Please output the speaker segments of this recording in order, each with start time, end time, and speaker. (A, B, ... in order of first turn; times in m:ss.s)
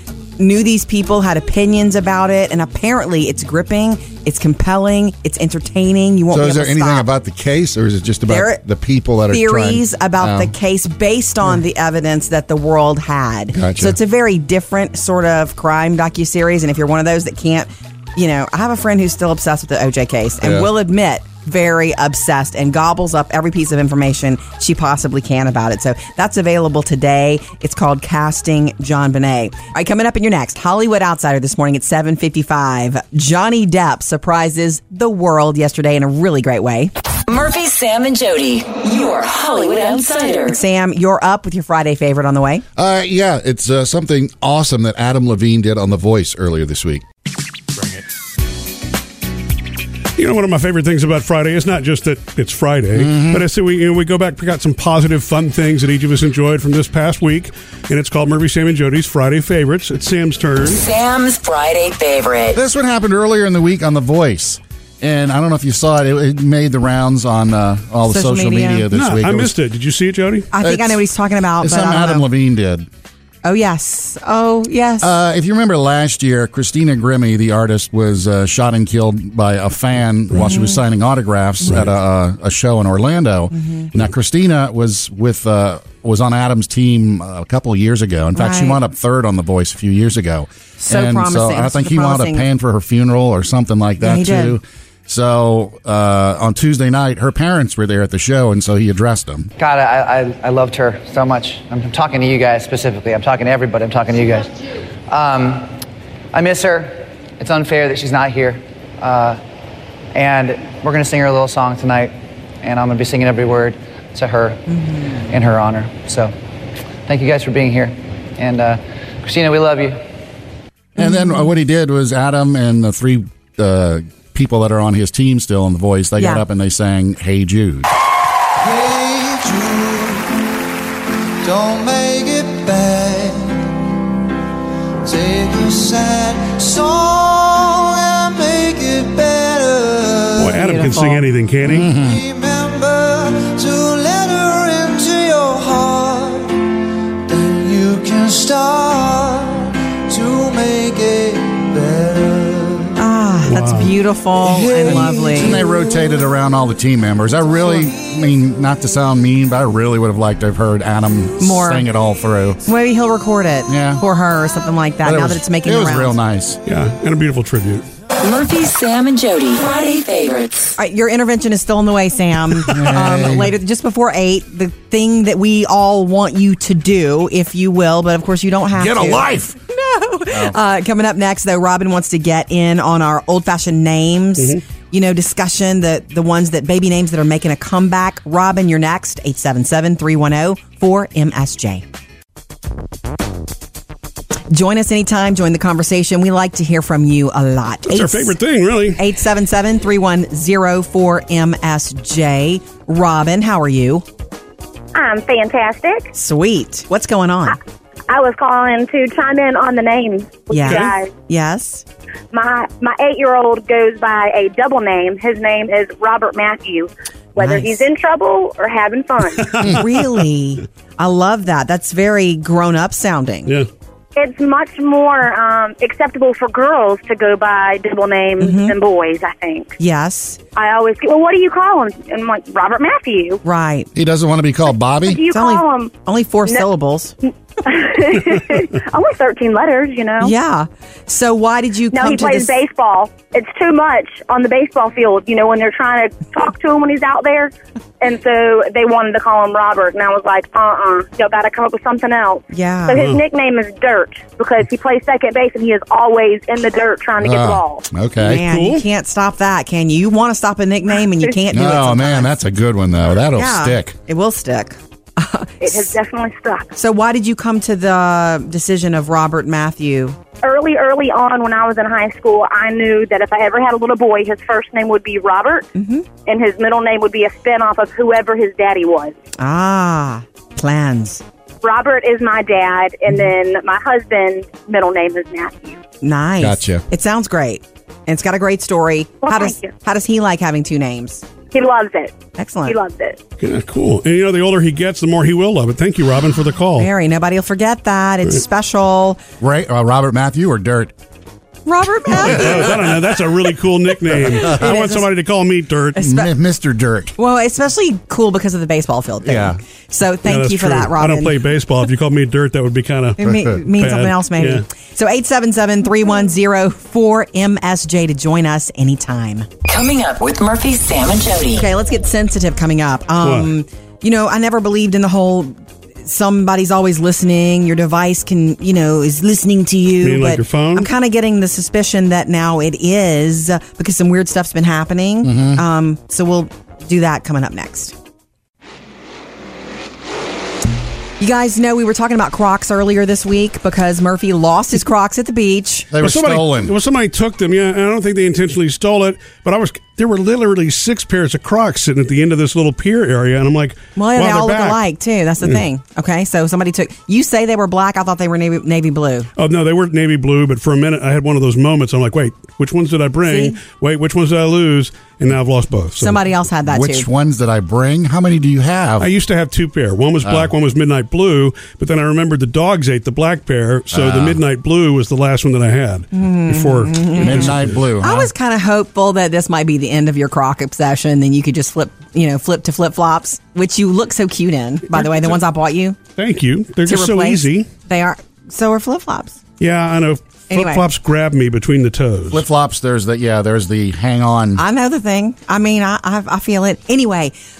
0:00.4-0:07.1 A
0:06.3-0:10.5 B
0:08.3-0:08.6 A
0:09.3-0:36.9 A
0:13.5-0:14.0 B
0:20.4-0:20.7 B
0:37.3-0:40.6 C
0:40.5-0:42.6 A
0:42.8-0:47.0 B
0:50.2-1:00.8 D
0:52.9-0:53.4 B
1:00.7-1:02.6 C
1:02.5-1:09.5 B
1:08.1-1:08.9 A
1:08.9-1:10.5 D
1:10.5-1:12.2 A
1:10.6-1:11.0 B
1:11.6-1:12.9 B
1:13.4-1:15.1 A
1:15.0-1:39.5 B
1:20.3-1:20.8 A
1:23.5-1:23.9 A
1:28.4-1:28.8 A
1:30.8-1:32.5 A
1:34.0-1:34.6 A
1:39.6-1:44.5 E
1:45.1-1:45.8 E
1:46.3-1:49.4 E
1:50.1-1:54.6 E
1:55.2-1:56.3 E
1:57.1-2:00.0 E
2:01.0-2:07.9 B
2:01.0-2:01.4 A
2:06.2-2:06.4 A
2:08.6-2:10.4 F
2:11.4-2:13.8 F
2:15.0-2:20.6 F
2:20.4-2:21.9 D
2:20.6-2:21.2 A
2:21.6-2:22.2 B
2:21.9-2:26.6 F
2:27.3-2:33.0 F
2:33.0-2:35.6 A
2:33.5-2:33.9 D
2:34.4-2:36.1 F
2:34.9-2:42.6 B
2:41.4-2:41.8 A
2:42.6-2:46.2 A
2:43.7-2:44.0 B
2:45.0-2:46.6 B
2:46.6-2:47.8 D
2:48.2-2:50.7 C
2:50.8-3:11.8 A
2:52.6-2:53.5 B
2:58.8-2:59.6 B
3:00.3-3:00.6 B
3:14.5-3:18.3 A
3:17.9-3:19.0 D
3:19.0-3:24.0 A
3:24.9-3:26.1 G
3:26.1-3:27.6 A
3:28.1-3:31.1 G
3:30.5-3:31.8 A
3:32.3-3:39.7 G
3:37.4-3:37.8 A
3:39.6-3:43.5 A
3:44.2-3:49.8 G
3:48.4-3:48.7 A
3:49.8-3:50.4 A
3:50.5-3:53.4 G
3:53.4-3:53.9 A
3:53.9-3:55.2 B
3:55.0-3:55.9 G
3:55.3-3:57.1 A
3:57.6-4:00.3 G
4:00.2-4:02.5 A
4:01.9-4:17.8 G
4:12.5-4:13.1 A
4:17.2-4:18.4 B
4:18.2-4:22.3 A
4:18.3-4:18.8 D
4:21.5-4:24.0 B
4:23.4-4:25.9 A
4:25.6-4:26.7 G
4:26.8-4:30.2 A
4:30.4-4:35.7 G
4:35.7-4:36.0 A
4:36.2-4:39.2 G
4:39.4-4:41.2 A
4:41.6-4:45.8 G
4:46.0-4:51.2 A
4:46.4-4:46.8 B
4:49.2-4:49.7 G
4:51.5-4:52.1 G
4:52.4-4:52.8 A
4:52.6-4:53.2 G
4:53.4-4:56.9 D
4:56.8-4:59.2 A
4:59.4-5:00.9 B
5:01.6-5:02.8 A
5:02.1-5:06.0 D
5:02.2-5:02.7 B
5:04.1-5:04.7 B
5:04.4-5:05.0 A
5:06.0-5:06.3 A
5:06.0-5:07.1 B
5:07.2-5:11.4 A
5:09.2-5:09.6 B
5:10.2-5:14.6 D
5:13.2-5:19.5 A
5:13.2-5:13.6 B
5:19.6-5:21.7 C
5:21.5-5:37.9 A
5:23.2-5:23.5 D
5:30.0-5:30.9 D
5:35.2-5:35.6 B
5:41.2-5:45.9 A
5:45.9-5:46.7 B
5:46.0-5:54.8 D
5:54.0-5:59.3 A
5:59.4-6:06.2 D
6:03.3-6:03.6 A
6:06.0-6:07.1 A
6:06.7-6:09.1 B
6:09.0-6:17.7 D
6:10.2-6:10.5 B
6:13.9-6:14.4 B
6:16.1-6:26.0 A
6:17.1-6:18.3 B
6:26.2-6:27.7 D
6:26.8-6:29.4 A
6:29.6-6:32.4 D
6:30.5-6:30.8 A
6:32.3-6:34.6 B
6:34.6-6:37.3 A